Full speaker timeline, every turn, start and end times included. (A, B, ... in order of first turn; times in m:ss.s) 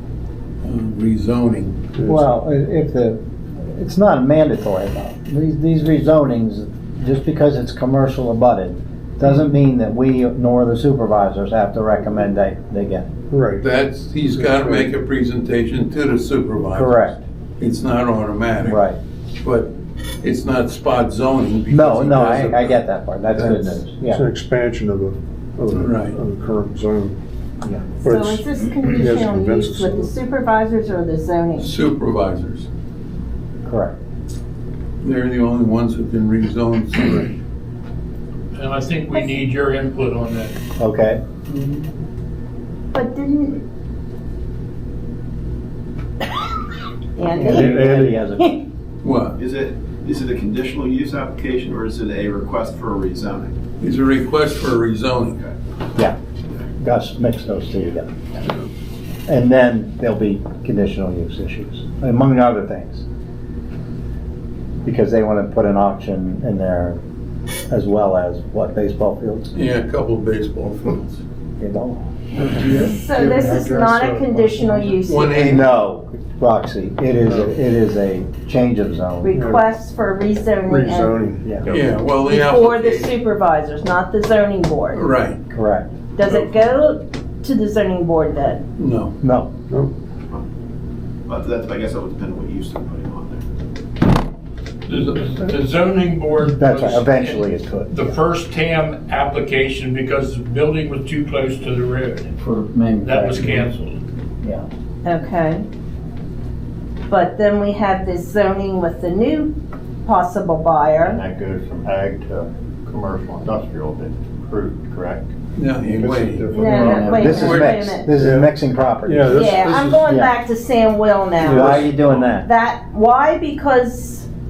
0:00.6-0:01.8 A
0:02.0-0:02.3 B
0:02.0-0:13.1 C
0:13.3-0:13.6 B
0:13.6-0:18.8 A
0:14.3-0:14.9 B
0:16.7-0:17.2 C
0:18.6-0:19.0 C
0:19.4-0:22.8 A
0:21.7-0:24.2 C
0:23.4-0:23.8 A
0:24.1-0:27.2 B
0:25.8-0:26.2 A
0:27.6-0:27.9 C
0:28.0-0:31.7 D
0:28.0-0:30.1 B
0:31.6-0:32.7 A
0:33.6-0:34.0 C
0:35.0-0:37.3 A
0:38.5-0:40.5 E
0:40.8-0:41.2 C
0:41.5-0:41.8 A
0:42.9-0:43.6 D
0:47.2-0:47.9 D
0:47.3-0:48.2 B
0:47.4-0:48.6 C
0:49.0-0:49.4 A
0:49.4-0:53.5 F
0:53.8-0:55.4 A
0:56.8-0:58.1 C
0:59.3-1:03.0 C
1:04.8-1:07.0 C
1:07.7-1:09.5 C
1:09.5-1:11.2 A
1:11.6-1:12.0 C
1:12.5-1:15.0 B
1:12.7-1:15.4 D
1:15.0-1:15.7 A
1:15.3-1:19.3 C
1:17.2-1:17.5 B
1:19.2-1:21.2 D
1:19.3-1:19.6 B
1:20.7-1:22.0 B
1:21.7-1:23.1 A
1:22.3-1:25.0 D
1:24.9-1:25.4 A
1:25.5-1:25.9 C
1:26.2-1:28.6 D
1:28.8-1:29.2 A
1:29.2-1:29.5 C
1:31.3-1:33.4 F
1:34.9-1:42.3 E
1:36.5-1:38.1 C
1:42.4-1:43.7 G
1:43.0-1:44.0 E
1:45.0-1:45.6 D
1:47.1-1:49.5 D
1:50.0-1:51.2 D
1:51.0-1:55.2 G
1:55.6-1:57.8 A
1:55.9-1:57.4 G
1:56.5-1:58.1 D
1:57.1-2:00.3 C
1:58.1-1:58.5 B
1:59.0-2:00.0 B
1:59.3-2:04.2 D
2:01.4-2:02.1 B
2:01.4-2:02.4 C